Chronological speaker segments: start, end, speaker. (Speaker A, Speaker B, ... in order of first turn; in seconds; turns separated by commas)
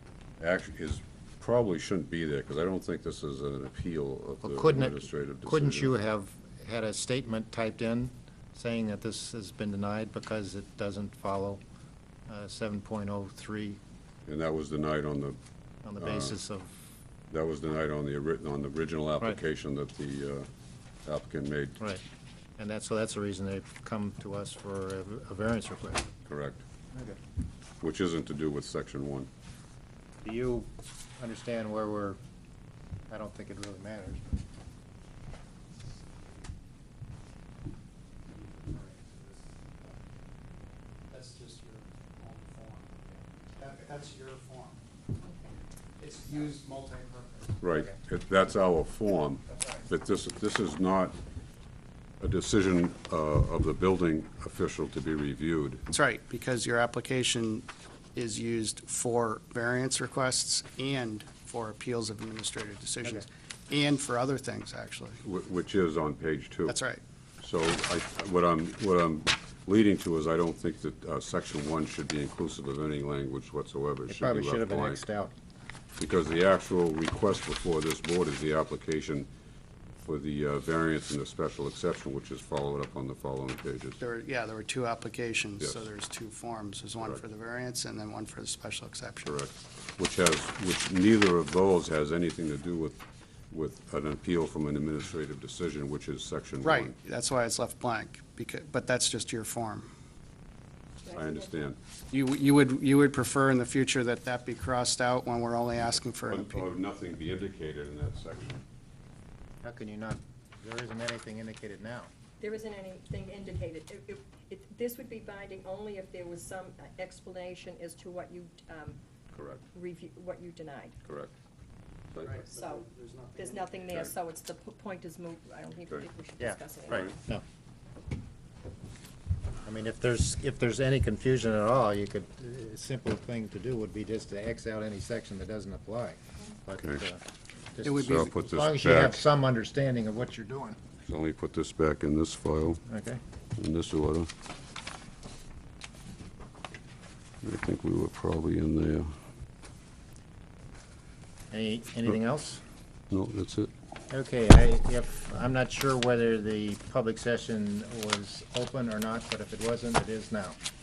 Speaker A: 0.4-5.9, Speaker B: 4.4-11.6, Speaker B: 12.3-13.8, Speaker A: 14.2-15.4, Speaker B: 15.8-16.7, Speaker A: 16.0-16.4, Speaker A: 17.3-20.5, Speaker A: 21.0-21.8, Speaker B: 22.6-26.1, Speaker A: 26.2-26.6, Speaker B: 26.9-27.2, Speaker A: 27.8-29.3, Speaker B: 30.2-32.2, Speaker B: 33.1-34.4, Speaker C: 38.3-40.0, Speaker C: 41.1-42.9, Speaker C: 43.6-44.8, Speaker D: 45.2-45.5, Speaker C: 46.0-47.6, Speaker A: 47.6-51.1, Speaker A: 52.2-55.8, Speaker C: 55.9-65.2, Speaker A: 65.2-66.8, Speaker C: 66.7-67.0, Speaker A: 67.4-75.0, Speaker B: 74.1-75.3, Speaker A: 76.0-79.3, Speaker A: 80.0-84.0, Speaker C: 84.0-89.4, Speaker A: 89.2-96.9, Speaker C: 96.6-99.9, Speaker D: 101.0-101.6, Speaker A: 101.1-101.8, Speaker C: 102.1-106.7, Speaker A: 106.3-108.6, Speaker B: 109.6-112.1, Speaker D: 112.4-119.0, Speaker A: 119.3-119.6, Speaker D: 119.7-120.9, Speaker A: 121.0-121.3, Speaker A: 122.1-122.4, Speaker C: 122.2-124.1, Speaker D: 122.5-122.8, Speaker D: 123.3-127.1, Speaker B: 126.4-127.4, Speaker B: 129.6-137.2, Speaker B: 137.7-140.8, Speaker C: 137.8-138.3, Speaker A: 137.9-139.2, Speaker A: 141.0-142.8, Speaker B: 142.8-143.2, Speaker A: 143.6-144.3, Speaker A: 147.4-149.1, Speaker B: 151.5-152.6, Speaker A: 153.1-153.7, Speaker B: 154.1-160.6